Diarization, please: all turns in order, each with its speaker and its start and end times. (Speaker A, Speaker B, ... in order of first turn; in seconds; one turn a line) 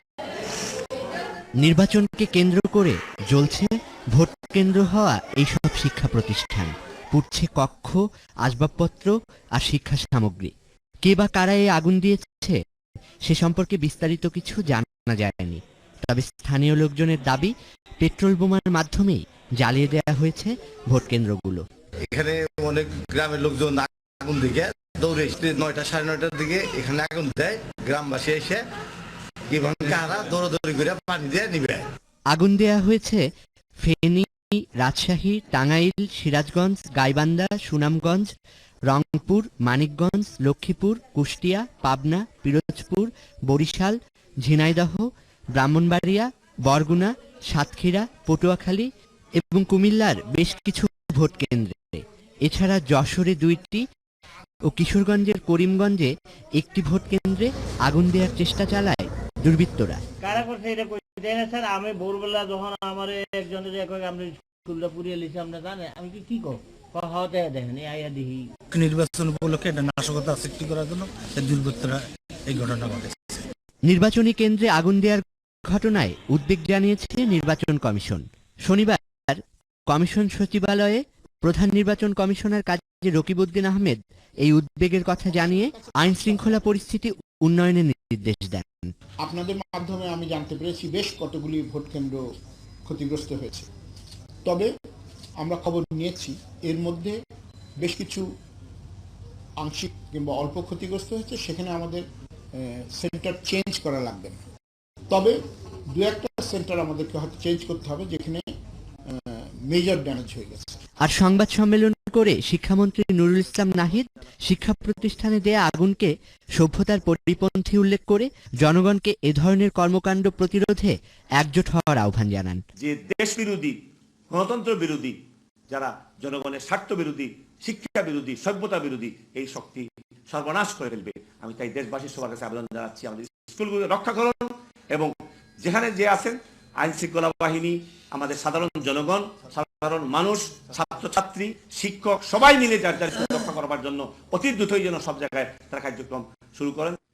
Speaker A: 1.6-10.5
Speaker A: 11.0-12.6
Speaker A: 13.2-21.6
Speaker B: 22.1-28.6
Speaker B: 29.5-31.8
Speaker A: 32.3-33.2
Speaker A: 33.8-38.3
Speaker A: 38.9-53.8
Speaker A: 54.6-60.0
Speaker C: 60.2-68.4
Speaker D: 68.7-73.4
Speaker A: 73.8-88.9
Speaker E: 85.4-86.6
Speaker E: 89.2-92.2
Speaker E: 92.8-93.7
Speaker E: 94.4-94.7
Speaker E: 95.4-97.2
Speaker E: 97.8-98.2
Speaker E: 99.6-102.0
Speaker E: 102.5-104.4
Speaker E: 105.1-105.4
Speaker E: 105.9-108.5
Speaker E: 109.1-110.8
Speaker A: 111.0-122.6
Speaker F: 122.8-123.7
Speaker F: 124.3-125.1
Speaker F: 125.7-147.0